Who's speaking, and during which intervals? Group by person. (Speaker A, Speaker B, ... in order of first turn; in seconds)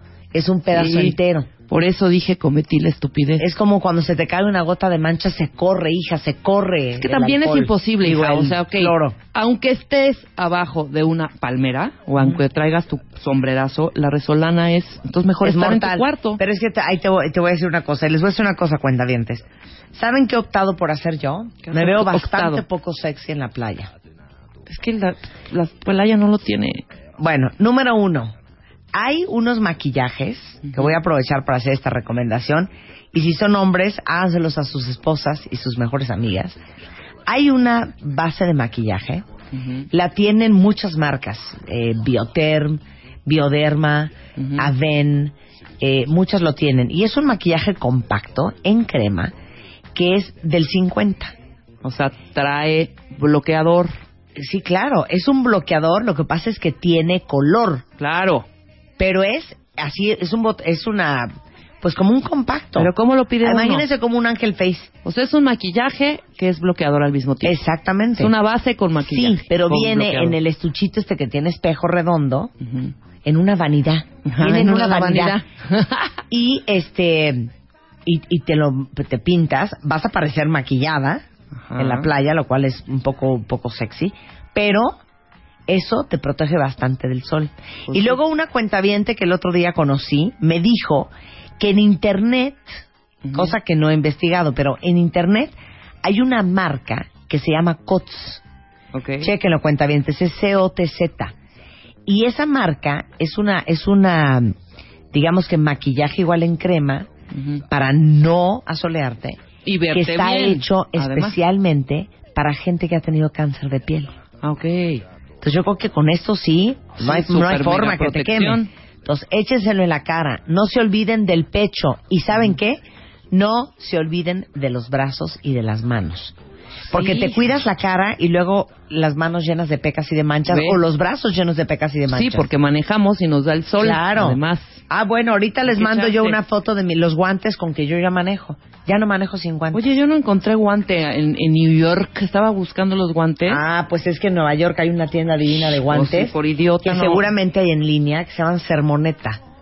Speaker A: 0.3-1.5, 3.4-9.2, 15.4-23.9, 27.2-28.3, 28.9-36.6, 37.2-39.2, 39.9-49.3, 49.9-51.3, 54.4-57.8, 59.0-62.9, 63.4-64.9, 67.4-68.3, 69.0-72.5, 73.2-75.4, 76.3-77.5, 78.0-81.2, 81.8-85.0, 85.7-92.8, 93.3-98.4, 99.2-101.3, 102.1-104.5, 105.1-107.1, 107.7-109.4, 109.9-114.1, 115.4-126.3, 126.9-132.5, 133.8-139.9, 143.4-149.4
Speaker B: 0.7-1.1, 1.7-3.5, 7.0-16.4, 21.6-22.6, 24.7-26.8, 30.6-30.9, 39.5-39.9, 44.4-44.7, 51.8-54.0, 58.0-58.5, 62.8-63.9, 65.0-67.6, 68.2-70.4, 72.6-72.9, 74.2-76.2, 81.6-82.1, 87.9-88.2, 93.2-93.6, 98.9-99.3, 107.3-107.6, 109.6-111.4, 114.4-115.0, 117.0-118.7, 126.9-127.5, 130.5-130.8, 132.1-134.8, 135.7-136.4, 139.7-143.6, 145.9-147.3